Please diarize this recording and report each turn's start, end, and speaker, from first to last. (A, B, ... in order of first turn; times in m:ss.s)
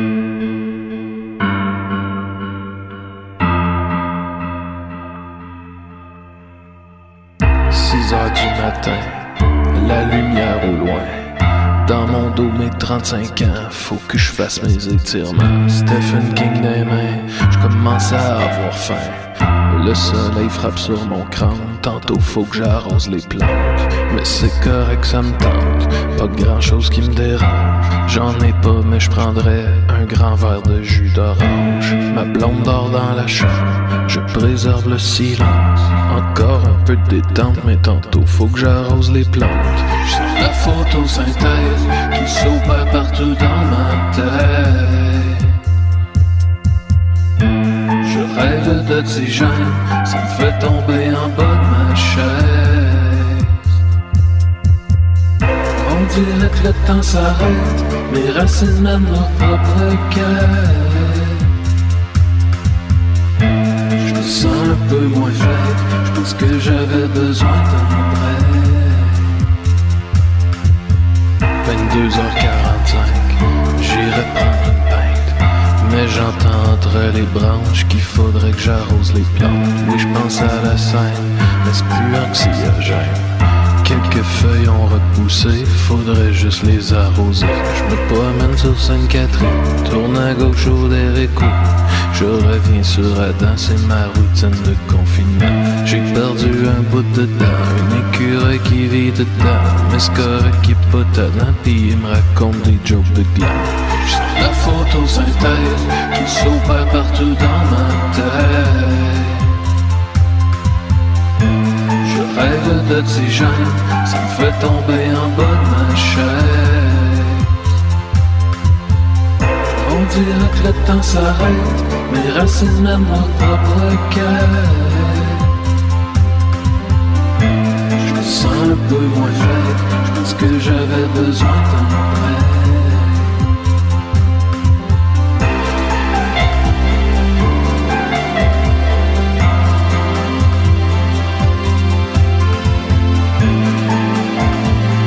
0:07.7-0:45.6 A
0:48.0-0:53.7 A
0:55.7-1:01.5 A
1:04.0-1:09.4 A
1:11.6-1:49.6 A
1:52.0-1:57.6 A
1:59.7-2:05.5 A
2:08.0-2:13.4 A